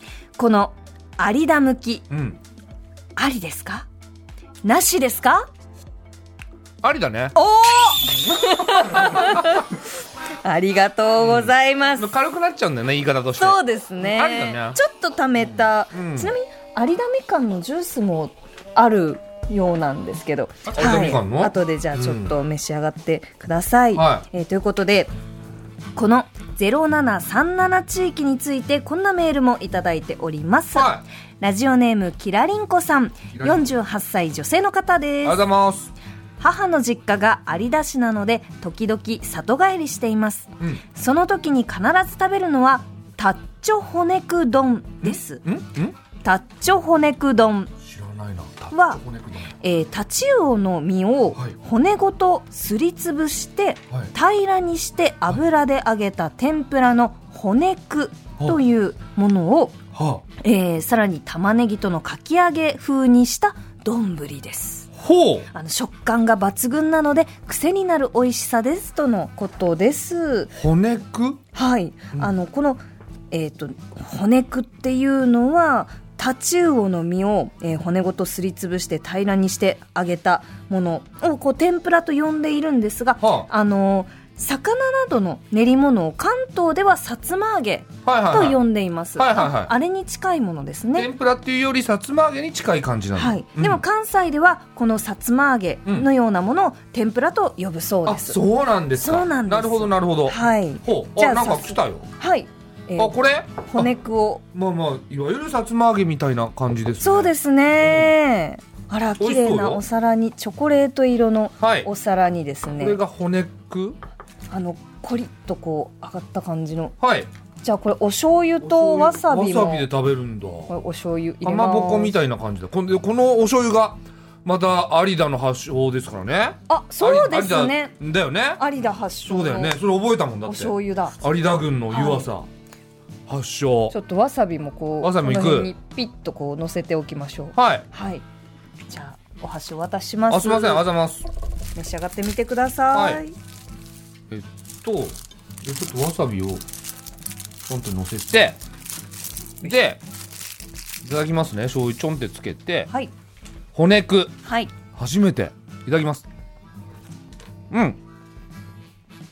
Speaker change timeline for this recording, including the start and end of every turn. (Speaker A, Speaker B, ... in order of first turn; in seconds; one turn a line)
Speaker A: 0.4-2.1
Speaker B: 2.1-2.4
Speaker A: 3.1-3.9
Speaker A: 4.6-5.5
Speaker B: 6.8-7.3
Speaker A: 7.3-9.7
Speaker B: 8.7-9.6
Speaker A: 10.4-12.1
Speaker B: 11.2-14.8
Speaker A: 13.4-25.1
Speaker B: 15.9-16.3
Speaker B: 20.7-22.3
Speaker B: 23.9-24.2
Speaker A: 25.9-35.4
Speaker B: 30.7-31.0
Speaker B: 33.3-33.7
Speaker B: 35.2-35.9
Speaker A: 36.4-45.4
Speaker B: 45.0-46.0
Speaker A: 46.2-47.7
Speaker B: 47.8-49.5
Speaker A: 48.7-49.0
Speaker A: 49.6-59.8
Speaker B: 59.9-60.2
Speaker A: 60.4-64.9
Speaker B: 65.0-65.5
Speaker A: 65.5-70.5
Speaker B: 70.5-71.4
Speaker A: 71.5-91.1
Speaker B: 83.2-83.5
Speaker B: 88.0-88.6
Speaker B: 89.2-89.7
Speaker B: 90.9-93.8
Speaker A: 93.2-98.4
Speaker B: 98.0-102.0
Speaker A: 99.0-104.4
Speaker B: 103.0-103.9
Speaker B: 104.5-108.1
Speaker A: 107.0-113.0
Speaker B: 109.2-109.8
Speaker B: 111.6-111.9
Speaker B: 112.8-114.0
Speaker A: 114.5-117.0
Speaker B: 117.0-117.3
Speaker A: 117.6-119.9
Speaker B: 118.6-120.7
Speaker A: 120.7-122.1
Speaker B: 121.4-128.6
Speaker A: 126.7-127.9
Speaker A: 128.6-129.8
Speaker B: 129.2-132.5
Speaker A: 130.4-131.2
Speaker A: 131.9-132.3
Speaker B: 133.3-133.9
Speaker A: 133.9-138.2
Speaker B: 135.0-135.7
Speaker B: 137.5-137.8
Speaker A: 138.9-140.9
Speaker B: 140.3-141.3
Speaker A: 141.8-143.3
Speaker B: 142.9-143.2
Speaker B: 144.3-146.6
Speaker B: 147.7-148.6
Speaker B: 149.6-150.0
Speaker B: 151.0-152.9
Speaker B: 153.7-154.3
Speaker A: 154.4-154.7
Speaker B: 154.9-156.2
Speaker B: 157.7-158.0